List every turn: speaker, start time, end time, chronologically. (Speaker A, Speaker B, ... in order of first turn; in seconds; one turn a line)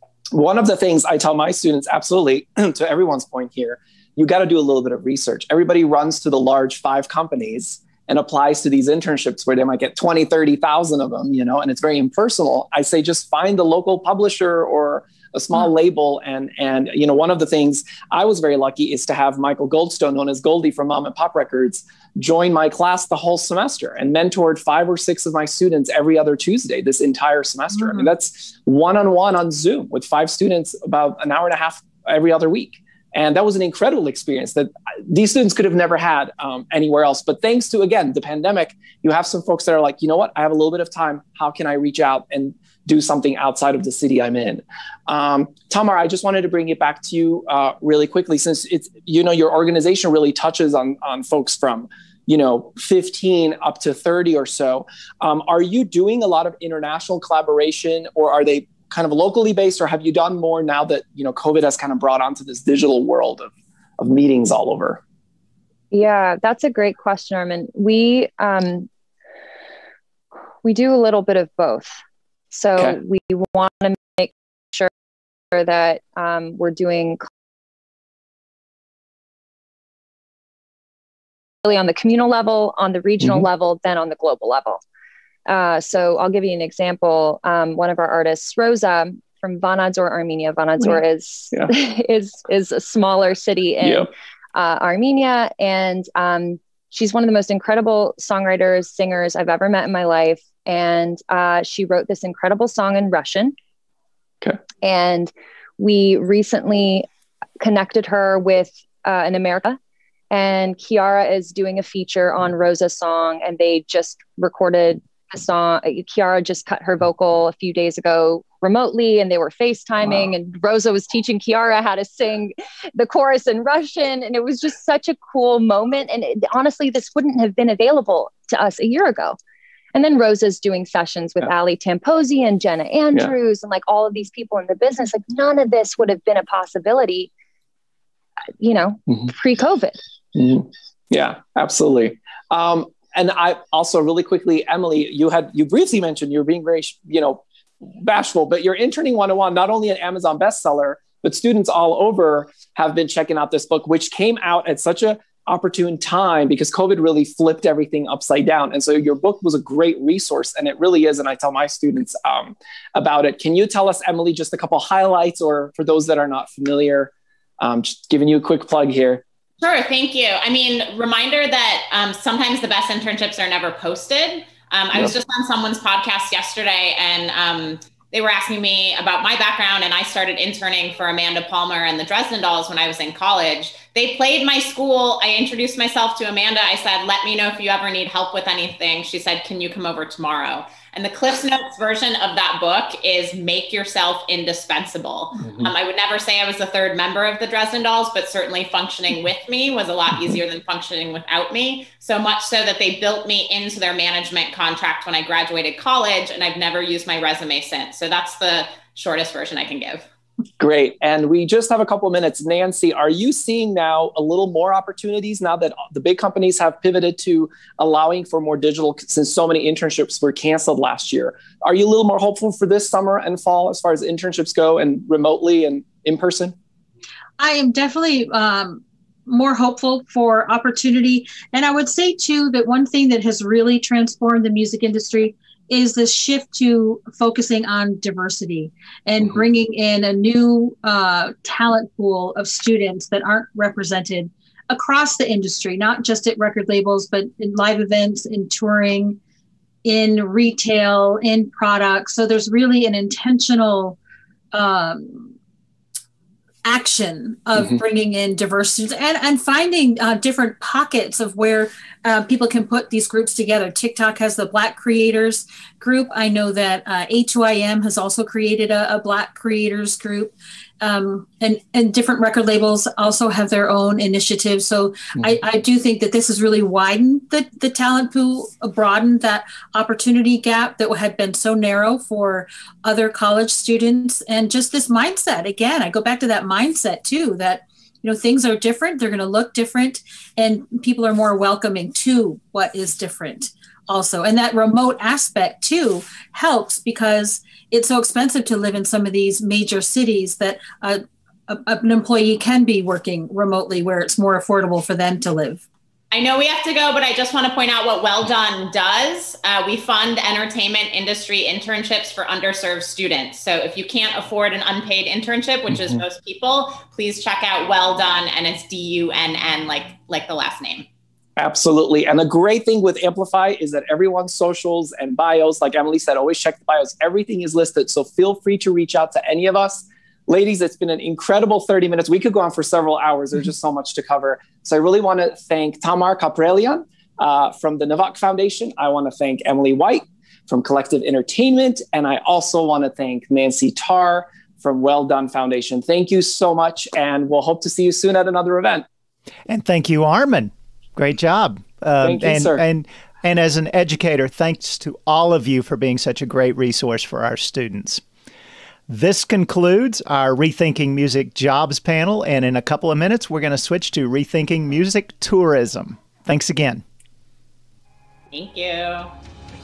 Speaker A: 0.3-65.0
Speaker B: 27.8-28.1
Speaker C: 65.9-68.9
Speaker C: 70.6-72.0
Speaker C: 72.5-74.9
Speaker C: 75.5-77.3
Speaker C: 81.6-84.8
Speaker C: 85.5-103.5
Speaker A: 93.8-94.1
Speaker C: 104.8-107.1
Speaker C: 107.6-109.8
Speaker C: 110.3-129.4
Speaker C: 129.9-137.3
Speaker C: 138.6-140.0
Speaker A: 140.3-169.2
Speaker D: 169.6-210.1
Speaker A: 210.6-226.6
Speaker B: 227.4-249.2
Speaker B: 249.8-254.0
Speaker B: 254.5-255.3
Speaker B: 256.6-305.6
Speaker D: 306.1-320.9
Speaker A: 321.4-348.9
Speaker E: 349.5-358.0
Speaker A: 352.0-352.6
Speaker E: 358.9-366.8
Speaker D: 368.3-369.1